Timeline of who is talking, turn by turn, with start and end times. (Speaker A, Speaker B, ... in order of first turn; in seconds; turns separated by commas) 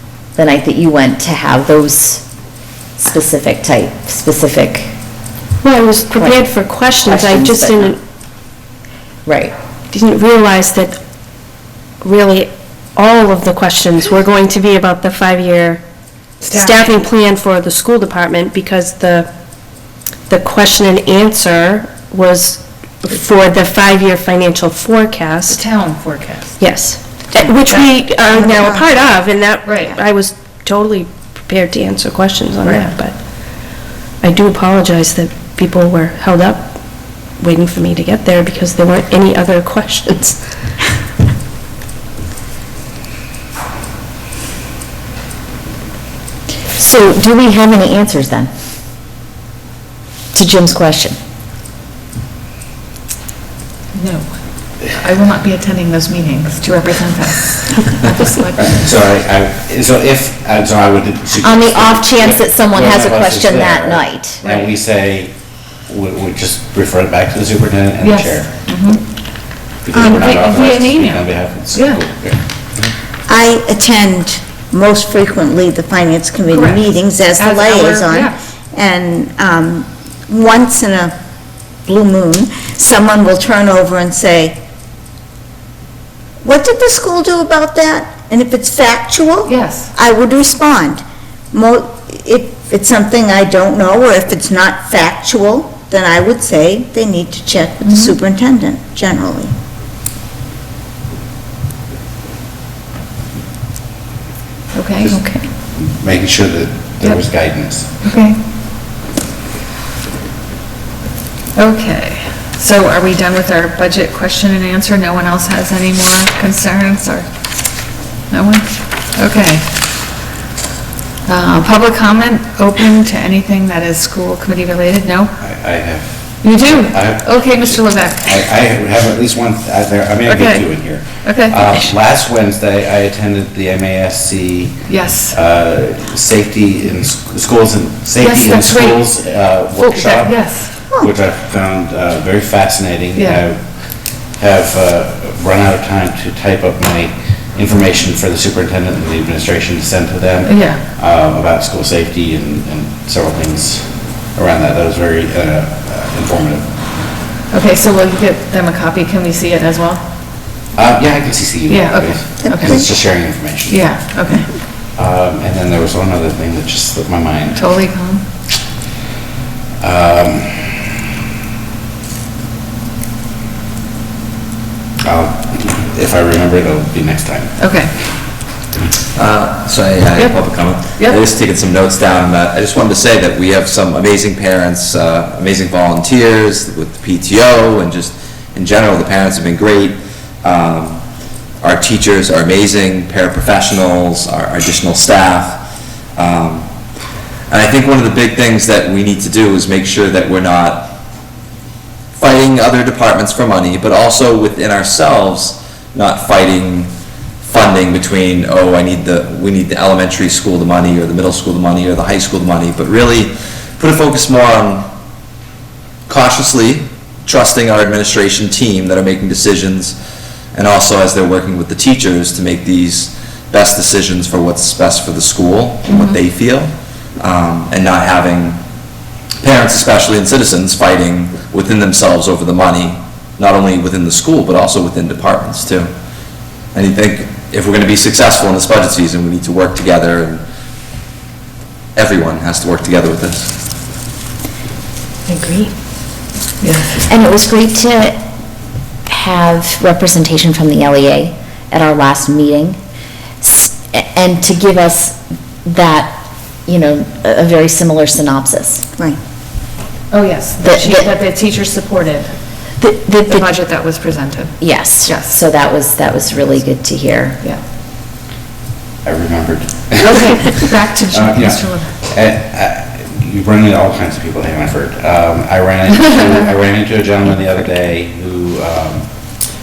Speaker A: 0.3-2.2, Speaker A: 3.0-4.9, Speaker B: 5.6-8.0, Speaker A: 6.2-6.5, Speaker A: 7.0-8.0, Speaker A: 9.2-9.5, Speaker B: 9.9-11.0, Speaker B: 12.0-15.8, Speaker B: 16.4-19.3, Speaker C: 16.4-17.0, Speaker B: 20.3-25.6, Speaker C: 25.5-26.6, Speaker B: 26.6-33.1, Speaker D: 28.3-28.9, Speaker C: 29.6-30.0, Speaker C: 32.6-32.9, Speaker B: 34.2-36.8, Speaker B: 37.4-40.4, Speaker A: 46.7-48.5, Speaker A: 50.3-51.2, Speaker C: 53.9-54.3, Speaker C: 54.8-58.8, Speaker E: 58.6-65.3, Speaker A: 61.4-64.4, Speaker C: 64.4-64.7, Speaker E: 65.9-68.5, Speaker C: 68.0-69.0, Speaker E: 69.8-72.4, Speaker C: 69.9-72.0, Speaker D: 73.3-81.1, Speaker C: 76.5-78.4, Speaker D: 81.9-84.6, Speaker D: 86.4-99.5, Speaker C: 89.4-89.9, Speaker A: 97.8-98.2, Speaker C: 104.7-105.2, Speaker A: 105.1-105.5, Speaker E: 105.7-107.9, Speaker C: 108.0-108.4, Speaker C: 111.5-117.3, Speaker C: 118.3-119.7, Speaker C: 121.2-125.3, Speaker E: 125.4-156.9, Speaker C: 126.4-128.5, Speaker C: 130.3-130.7, Speaker C: 131.2-131.7, Speaker C: 134.9-135.3, Speaker C: 138.2-139.1, Speaker C: 139.8-140.7, Speaker C: 150.4-150.8, Speaker C: 157.5-160.0, Speaker E: 160.7-163.9, Speaker C: 161.7-162.9, Speaker D: 162.4-162.8, Speaker C: 163.7-164.5, Speaker E: 164.9-167.7, Speaker C: 167.5-168.2, Speaker E: 169.8-170.8, Speaker E: 175.0-177.5, Speaker C: 177.6-177.9, Speaker F: 179.1-191.0, Speaker F: 191.6-195.6, Speaker F: 196.2-196.7, Speaker F: 197.5-200.9, Speaker F: 202.2-206.9, Speaker F: 207.4-214.8, Speaker F: 216.1-219.9, Speaker F: 220.5-228.6, Speaker C: 225.8-226.2, Speaker F: 229.4-235.9, Speaker F: 236.7-240.4, Speaker F: 241.9-243.5, Speaker B: 245.3-245.7, Speaker C: 246.6-247.0, Speaker A: 247.0-248.2, Speaker A: 249.1-252.8, Speaker A: 253.4-258.9, Speaker C: 260.1-262.3, Speaker A: 260.6-261.1, Speaker A: 262.8-263.4, Speaker C: 263.2-265.3, Speaker A: 264.6-267.4, Speaker E: 269.0-279.1, Speaker C: 270.0-271.9